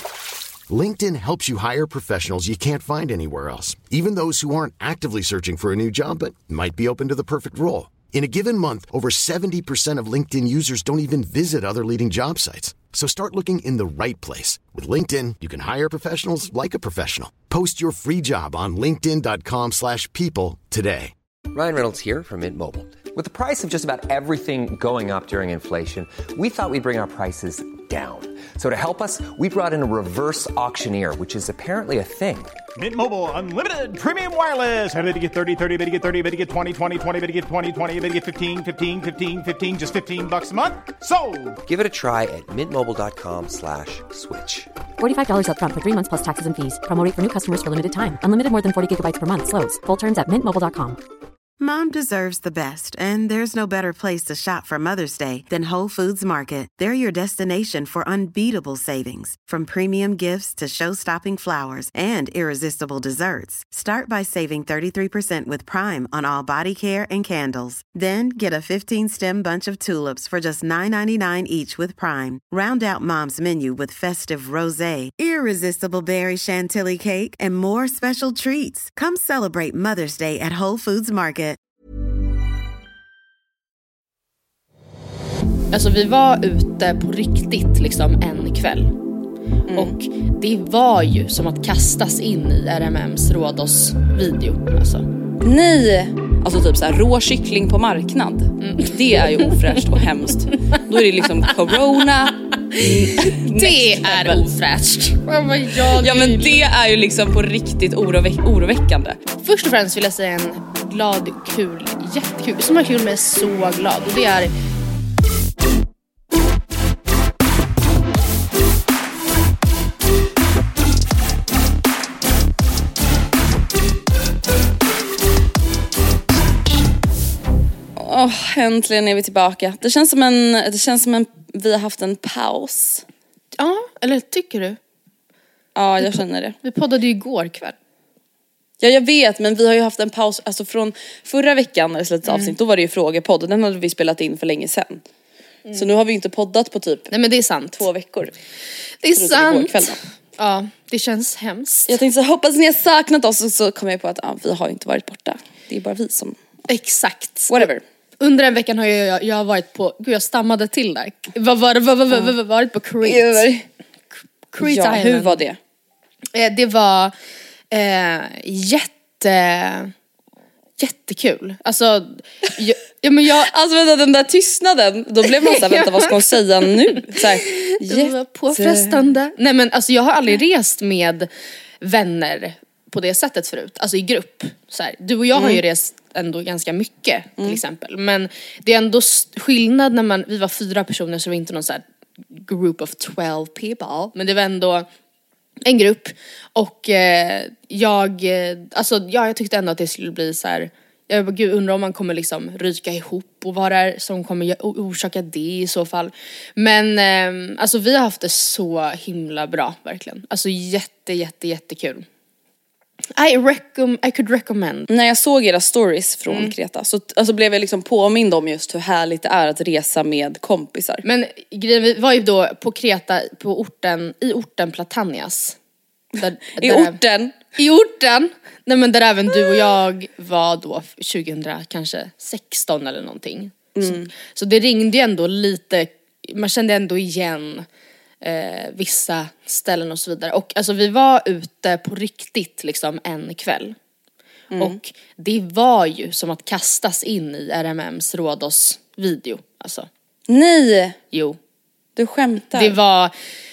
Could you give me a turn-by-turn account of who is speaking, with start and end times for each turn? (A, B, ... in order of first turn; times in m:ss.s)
0:00.7-0:21.1 A
0:21.5-0:32.6 B
0:32.8-0:41.6 C
0:41.6-0:44.7 B
0:45.0-0:51.0 D
0:51.6-1:21.6 E
1:25.7-1:28.9 F
1:29.7-1:30.0 G
1:29.7-1:35.0 F
1:35.4-1:44.4 G
1:38.6-1:39.6 F
1:42.7-1:46.5 F
1:45.9-1:49.2 G
1:49.4-1:54.5 F
2:08.0-2:13.0 G
2:13.6-2:14.8 F
2:15.7-2:16.6 G
2:16.0-2:17.7 F
2:18.8-2:25.0 G
2:22.3-2:22.5 F
2:25.7-2:27.1 G
2:27.1-2:27.8 F
2:27.8-2:28.3 G
2:29.0-2:31.9 F
2:29.1-2:30.0 G
2:31.9-2:36.4 G
2:36.7-2:43.5 F
2:37.5-2:37.8 G
2:43.0-2:43.6 G
2:44.5-2:45.4 F
2:44.6-2:45.6 G
2:46.3-2:47.1 F
2:47.7-2:49.9 F
2:50.8-2:53.5 F
2:53.4-2:59.0 G
2:55.4-3:01.3 F
3:01.8-3:14.9 F
3:05.3-3:05.6 G
3:15.6-3:32.0 F
3:33.2-3:34.9 F
3:34.9-3:41.0 G
3:41.0-3:45.6 F
3:46.2-3:47.0 F
3:46.6-3:47.4 G
3:47.5-3:57.6 F
3:53.7-3:54.1 G
3:58.2-4:03.8 F
4:04.5-4:04.8 G
4:04.6-4:09.9 F
4:10.3-4:11.0 G
4:11.1-4:11.4 F
4:12.0-4:12.8 G
4:12.5-4:13.1 F